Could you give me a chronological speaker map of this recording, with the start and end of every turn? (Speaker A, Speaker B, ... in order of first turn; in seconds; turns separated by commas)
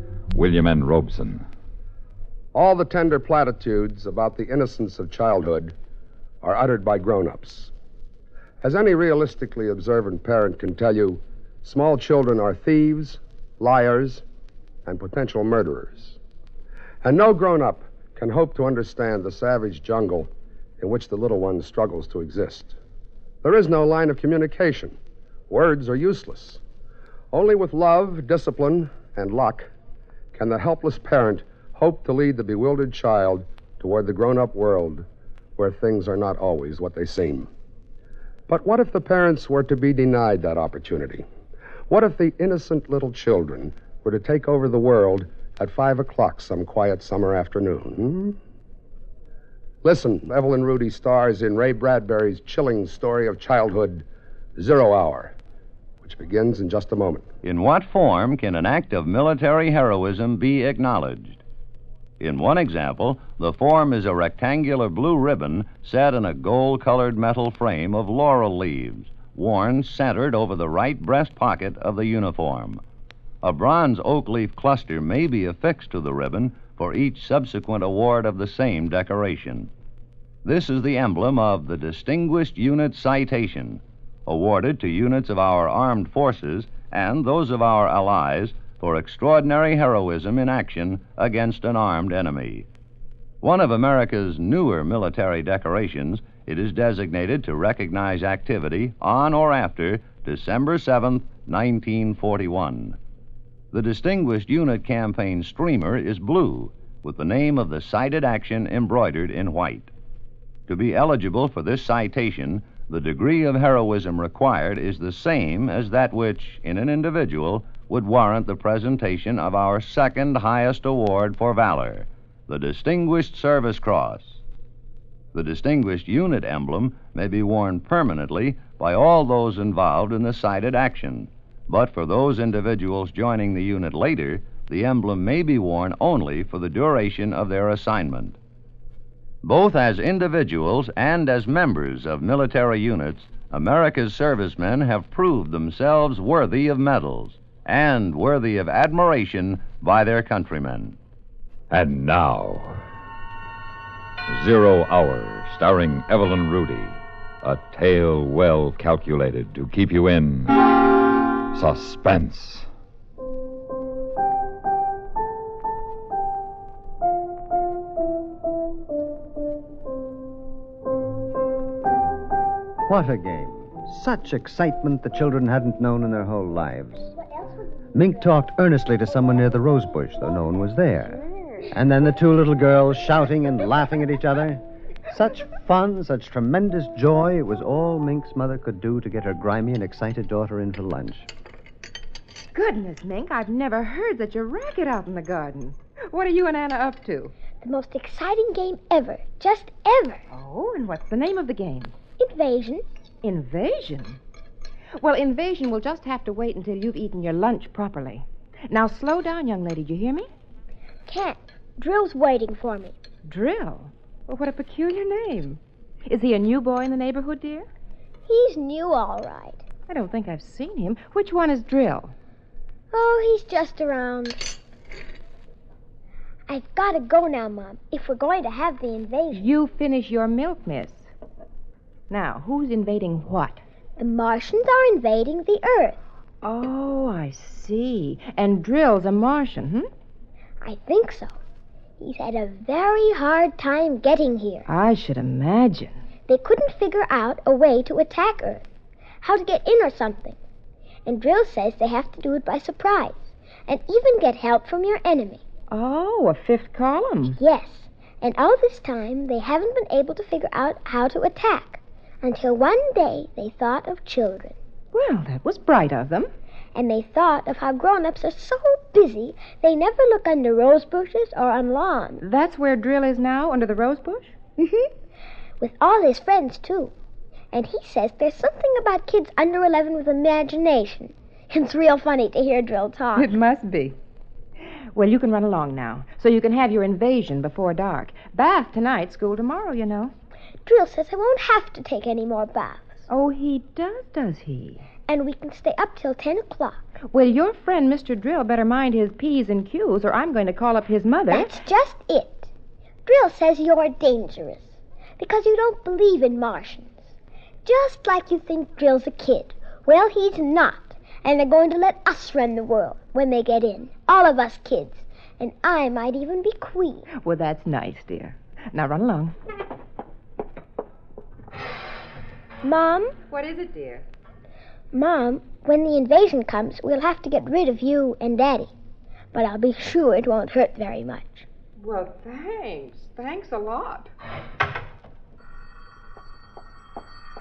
Speaker A: 0.3-1.5, Speaker B: 2.5-5.7, Speaker B: 6.4-7.7, Speaker B: 8.6-14.2, Speaker B: 14.9-16.2, Speaker B: 17.0-22.8, Speaker B: 23.4-25.0, Speaker B: 25.5-26.6, Speaker B: 27.3-29.7, Speaker B: 30.3-35.1, Speaker B: 35.6-37.5, Speaker B: 38.5-41.2, Speaker B: 41.9-48.4, Speaker B: 49.8-54.0, Speaker B: 54.6-55.3, Speaker B: 56.0-57.3, Speaker C: 57.4-61.4, Speaker C: 62.2-72.8, Speaker C: 73.4-79.7, Speaker C: 80.4-92.7, Speaker C: 93.4-103.0, Speaker C: 103.7-109.9, Speaker C: 110.7-124.4, Speaker C: 125.3-138.4, Speaker C: 139.4-151.0, Speaker A: 151.7-152.8, Speaker A: 154.3-160.6, Speaker A: 161.5-162.7, Speaker D: 172.9-177.1, Speaker D: 177.9-191.3, Speaker E: 192.5-197.3, Speaker F: 197.6-200.2, Speaker E: 200.3-201.9, Speaker F: 202.2-202.8, Speaker E: 203.2-204.2, Speaker E: 205.0-210.3, Speaker F: 211.1-212.9, Speaker E: 213.3-217.7, Speaker F: 218.3-219.6, Speaker E: 219.9-222.1, Speaker F: 222.9-224.4, Speaker F: 226.5-229.5, Speaker E: 229.3-231.1, Speaker E: 232.1-233.6, Speaker F: 234.0-236.0, Speaker E: 236.4-239.9, Speaker F: 240.6-241.3, Speaker F: 242.0-244.7, Speaker E: 244.7-246.0, Speaker F: 246.3-248.6, Speaker F: 249.2-250.4, Speaker F: 251.1-255.4, Speaker E: 255.7-257.4, Speaker F: 257.4-264.6, Speaker E: 264.9-266.3, Speaker F: 266.8-272.2, Speaker E: 272.2-274.3, Speaker F: 274.6-274.9, Speaker F: 275.6-276.9, Speaker F: 277.5-283.3, Speaker E: 283.1-284.0, Speaker E: 284.9-290.1, Speaker F: 290.7-293.0, Speaker E: 293.1-294.9, Speaker F: 295.1-296.9, Speaker E: 297.1-301.5, Speaker F: 301.3-302.5, Speaker F: 303.1-307.1, Speaker F: 307.6-317.1, Speaker E: 317.1-319.3, Speaker F: 322.6-323.2, Speaker E: 323.3-324.0, Speaker F: 324.9-328.7, Speaker F: 329.3-331.5, Speaker E: 331.8-334.1